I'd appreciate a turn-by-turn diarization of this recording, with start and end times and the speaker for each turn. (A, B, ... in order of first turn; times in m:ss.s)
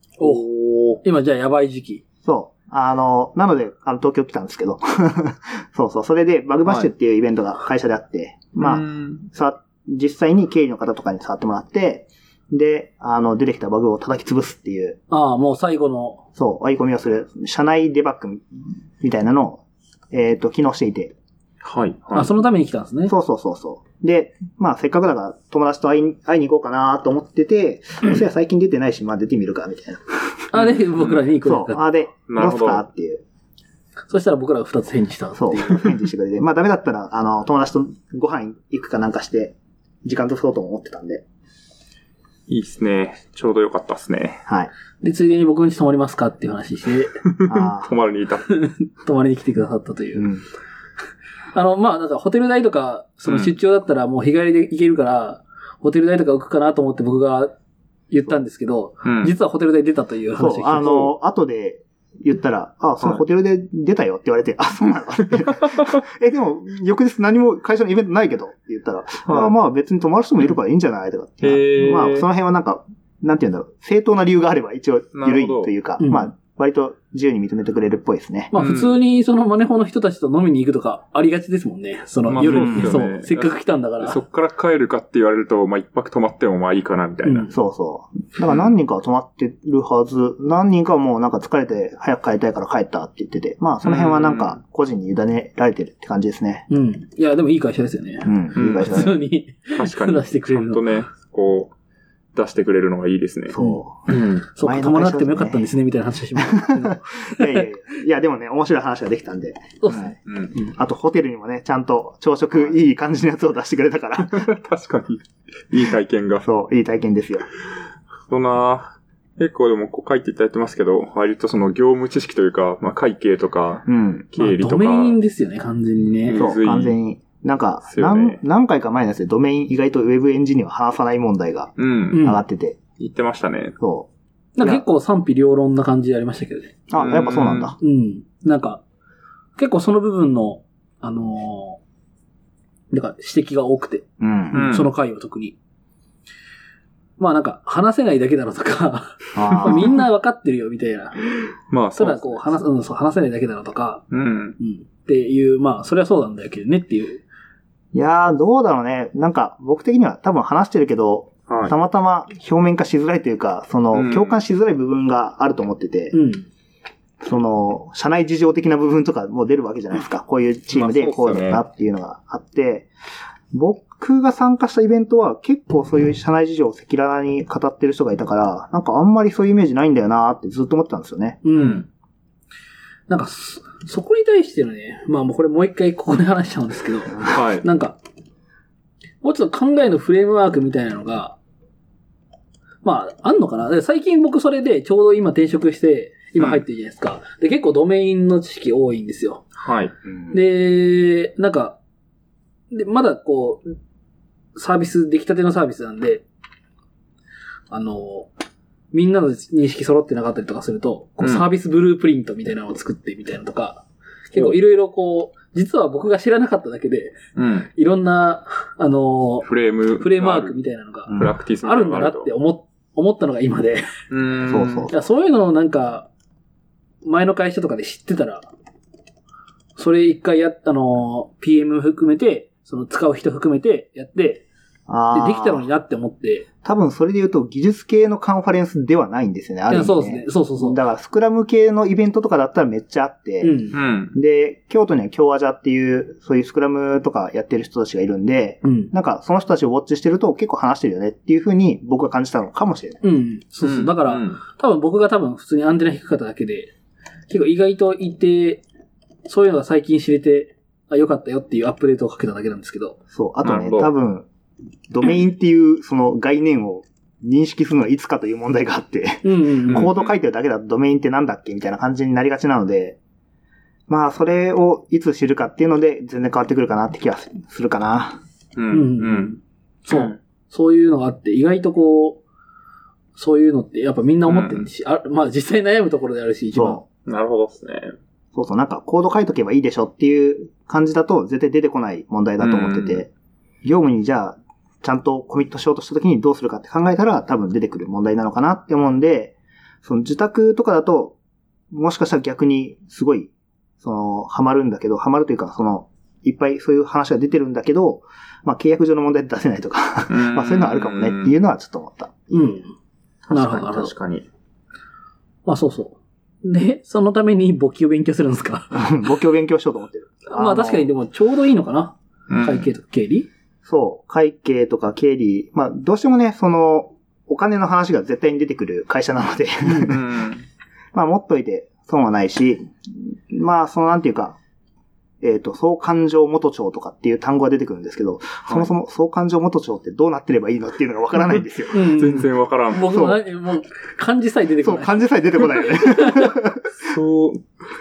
0:00.2-0:00.5 A
0:00.2-0:01.0 B
0:01.0-0:02.0 A
0:02.2-0:15.0 C
0:08.6-0:09.2 B
0:15.1-0:16.2 A
0:16.4-0:21.2 C
0:21.6-0:22.3 B
0:22.1-0:23.1 A
0:23.1-0:30.5 C
0:30.5-0:31.8 A
0:30.6-0:31.2 B
0:31.4-0:33.2 C
0:32.3-0:32.8 B
0:34.1-0:36.0 A
0:35.4-0:41.2 C
0:42.5-0:44.4 B
0:45.0-0:47.1 A
0:47.3-0:48.5 B
0:47.5-0:47.9 C
0:48.5-0:50.3 A
0:50.2-0:50.4 C
0:51.5-0:57.5 A
0:53.3-0:53.5 B
0:58.1-1:01.1 A
0:59.0-0:59.3 B
1:00.4-1:18.5 C
1:05.6-1:06.0 B
1:09.3-1:09.5 B
1:11.4-1:12.2 B
1:15.1-1:15.7 B
1:16.0-1:16.3 A
1:18.5-1:24.2 A
1:18.6-1:18.9 B
1:22.3-1:27.5 B
1:22.4-1:23.0 C
1:27.2-1:27.5 A
1:27.5-1:36.7 C
1:33.8-1:34.6 B
1:36.7-1:40.8 A
1:38.2-1:39.2 C
1:38.6-1:39.2 B
1:39.7-1:41.7 B
1:42.4-1:43.6 B
1:43.5-1:44.1 C
1:43.6-1:47.7 A
1:44.1-1:44.4 B
1:44.6-1:45.7 C
1:46.4-1:50.2 C
1:49.8-1:50.7 A
1:50.3-1:50.5 B
1:50.7-1:54.5 C
1:54.2-1:56.5 B
1:56.4-1:57.5 C
1:58.3-2:05.2 B
2:03.9-2:04.3 C
2:04.4-2:06.4 A
2:06.3-2:06.9 B
2:06.4-2:12.8 C
2:07.9-2:08.4 B
2:11.8-2:12.2 B
2:12.1-2:12.4 A
2:13.0-2:13.8 B
2:13.8-2:14.1 C
2:14.6-2:16.8 A
2:16.9-2:17.8 C
2:17.0-2:17.7 B
2:17.8-2:18.8 A
2:19.6-2:21.8 A
2:22.9-2:25.6 A
2:24.2-2:24.6 C
2:24.5-2:24.9 B
2:27.2-2:31.2 A
2:29.4-2:30.0 C
2:31.7-2:32.6 B
2:32.0-2:34.0 A
2:34.1-2:34.6 B
2:34.6-2:37.2 A
2:37.9-2:46.2 C
2:41.5-2:41.8 B
2:43.9-2:44.4 B
2:46.1-2:46.5 A
2:47.2-2:52.9 C
2:50.7-2:51.6 B
2:53.5-3:01.4 C
3:01.4-3:01.8 A
3:01.6-3:01.8 B
3:03.1-3:08.0 A
3:07.2-3:07.7 B
3:09.2-3:11.4 A
3:12.8-3:19.4 A
3:16.4-3:16.6 B
3:19.6-3:19.9 B
3:20.1-3:20.4 C
3:20.3-3:21.8 A
3:22.7-3:23.8 A
3:24.6-3:26.2 A
3:27.7-3:28.3 A
3:28.9-3:37.2 A
3:34.3-3:34.6 B
3:37.4-3:37.7 B
3:37.8-3:39.5 A
3:39.4-3:40.6 B
3:40.0-3:43.9 A
3:41.1-3:41.3 C
3:41.2-3:42.3 B
3:44.1-3:44.9 B
3:44.5-3:44.9 C
3:44.9-3:46.1 A
3:47.0-3:48.5 A
3:49.8-3:54.4 A
3:54.9-3:55.7 C
3:55.1-3:56.5 A
3:56.6-4:03.6 C
3:59.7-4:00.8 A
4:03.4-4:03.8 A
4:03.7-4:04.1 B
4:04.1-4:13.0 C
4:08.6-4:08.9 A
4:13.0-4:16.7 A
4:13.6-4:14.4 B
4:17.3-4:18.6 A
4:19.3-4:23.0 A
4:23.1-4:24.3 C
4:23.4-4:23.9 B
4:24.9-4:33.0 C
4:29.2-4:29.9 A
4:29.7-4:30.1 B
4:33.9-4:38.2 C
4:38.6-4:39.4 B
4:38.7-4:42.2 A
4:39.9-4:40.2 B
4:43.2-4:46.8 A
4:44.3-4:44.7 B
4:46.5-4:46.8 C
4:47.1-4:47.9 B
4:48.3-4:53.1 C
4:52.4-4:53.0 B
4:53.6-5:01.2 C
5:01.7-5:12.3 C
5:10.1-5:11.3 B
5:12.3-5:12.7 A
5:13.3-5:14.3 B
5:13.3-5:13.9 A
5:15.5-5:18.9 A
5:18.7-5:20.9 C
5:20.3-5:23.3 A
5:22.3-5:22.7 B
5:23.6-5:30.0 C
5:29.7-5:30.4 B
5:30.9-5:34.4 C
5:35.2-5:41.8 C
5:41.7-5:46.4 A
5:41.8-5:43.0 B
5:42.9-5:43.2 C
5:44.6-5:46.7 C
5:46.7-5:47.5 B